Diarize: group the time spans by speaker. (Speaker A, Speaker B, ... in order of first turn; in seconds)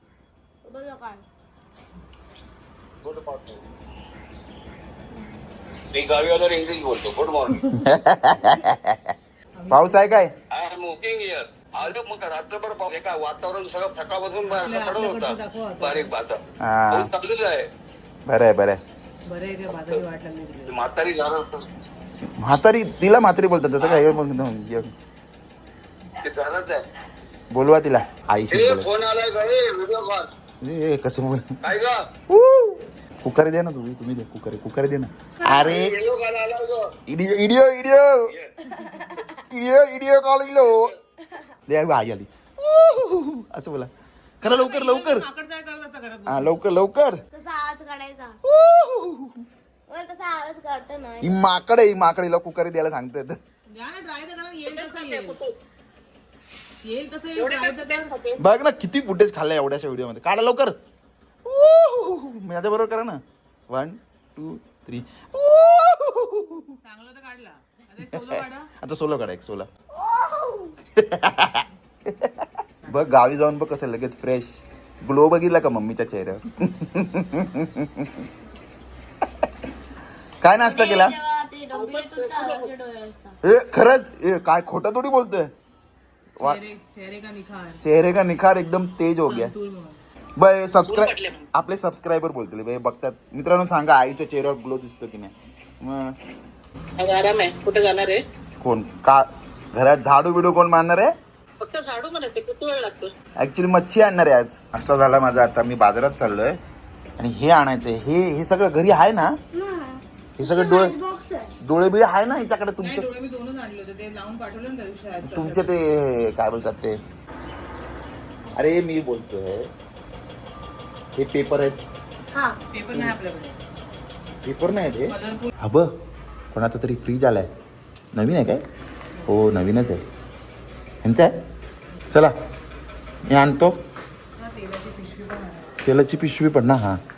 Speaker A: 0.6-1.2, 47.3-48.4, 49.9-51.4, 69.9-70.7, 80.6-83.3, 109.5-111.5, 122.3-122.6
Speaker B: 3.0-3.6, 5.9-7.5, 10.5-17.7, 20.7-21.6, 23.8-24.1, 26.2-26.8, 28.5-30.3, 31.6-32.0, 35.8-36.9
Speaker C: 7.8-9.1, 9.7-10.3, 16.6-17.1, 18.2-18.8, 22.4-24.9, 27.5-28.9, 30.6-31.5, 32.3-36.0, 37.1-38.3, 39.5-40.9, 41.7-43.9, 44.4-45.3, 46.3-47.2, 48.4-49.4, 51.2-53.4, 58.4-60.8, 61.4-66.7, 68.0-69.7, 70.9-78.2, 80.4-81.2, 83.4-85.5, 87.8-89.5, 90.3-96.2, 98.6-101.1, 103.4-106.6, 107.2-109.4, 110.4-110.9, 111.6-113.1, 115.3-117.0, 118.5-119.7, 121.1-121.8, 124.4-125.9, 126.5-127.5, 128.1-128.6, 129.3-130.0, 131.0-131.4, 133.3-133.8, 135.8-137.0
Speaker D: 9.6-10.2, 14.4-16.1, 19.2-20.8, 38.7-39.0, 44.4-46.6, 53.7-55.5, 56.8-58.1, 66.8-68.7, 86.4-87.8, 89.2-90.0, 112.8-115.7, 122.7-123.6, 125.1-125.5, 134.4-135.7
Speaker E: 54.6-55.5, 57.4-58.4, 81.7-82.7, 90.9-91.4, 97.0-98.2, 101.6-103.1